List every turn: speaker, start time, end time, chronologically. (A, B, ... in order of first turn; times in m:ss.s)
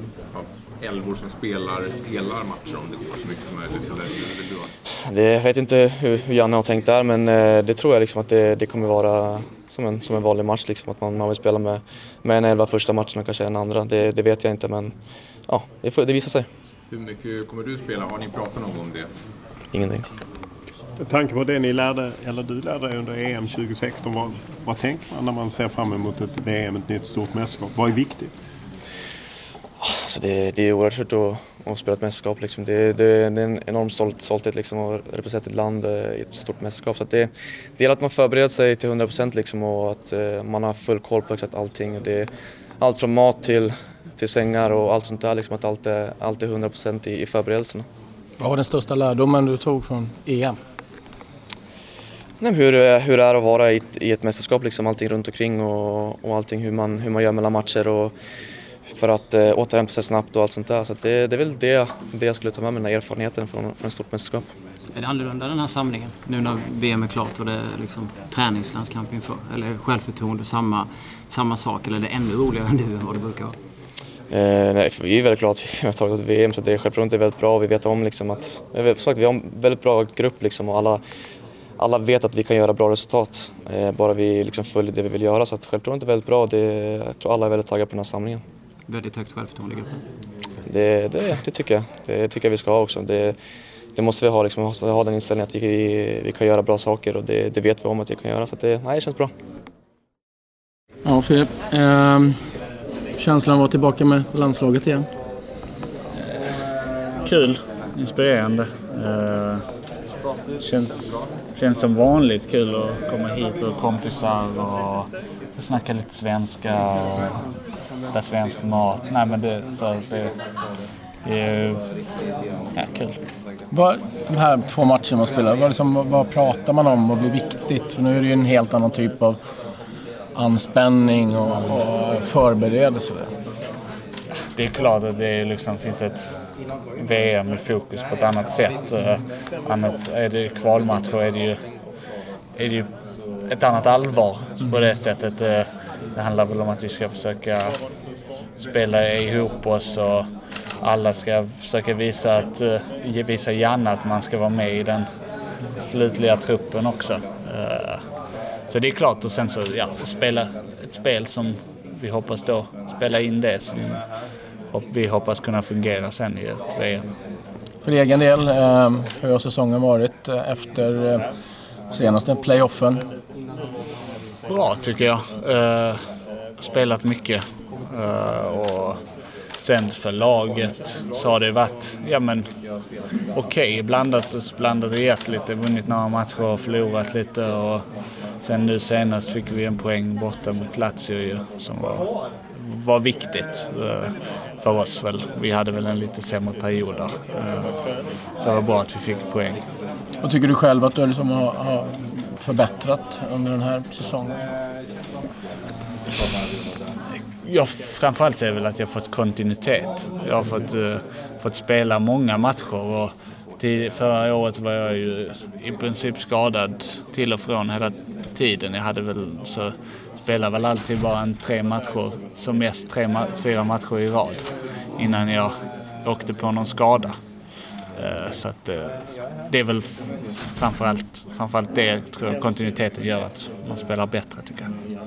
0:00.3-0:04.7 A
0:05.0-0:14.9 B
0:15.5-0:16.5 B
0:16.9-0:19.1 A
0:19.7-0:20.1 B
0:21.0-0:28.3 C
0:29.8-0:42.3 B
0:42.8-0:47.8 B
0:48.4-0:50.6 D
0:52.4-0:58.1 B
0:58.9-1:04.4 B
1:04.9-1:13.6 E
1:14.3-1:21.0 B
1:21.8-1:28.4 B
1:28.9-1:30.0 E
1:30.7-1:33.4 B
1:34.0-1:39.3 B
1:41.0-1:42.4 D
1:43.2-1:45.1 D
1:46.2-1:46.5 F
1:47.2-1:49.6 F
1:50.6-1:57.4 F
1:58.1-2:00.3 F
2:01.2-2:01.8 F
2:02.7-2:03.2 F
2:03.7-2:09.4 D
2:10.3-2:13.3 D
2:14.5-2:16.3 F
2:17.0-2:21.6 F
2:22.6-2:22.9 F
2:23.5-2:27.8 F
2:28.6-2:30.3 F
2:30.8-2:35.1 F
2:35.7-2:38.0 F
2:38.7-2:44.0 F
2:44.7-2:47.0 F
2:47.8-2:51.2 D
2:51.9-2:53.0 D
2:54.5-2:56.0 F
2:56.6-2:59.0 F
2:59.6-3:02.4 F
3:03.3-3:07.8 F
3:08.4-3:17.7 F
3:18.4-3:19.6 F
3:20.2-3:24.4 D
3:27.1-3:44.4 F
3:45.0-3:45.5 F
3:46.0-3:47.2 F
3:47.9-3:54.7 F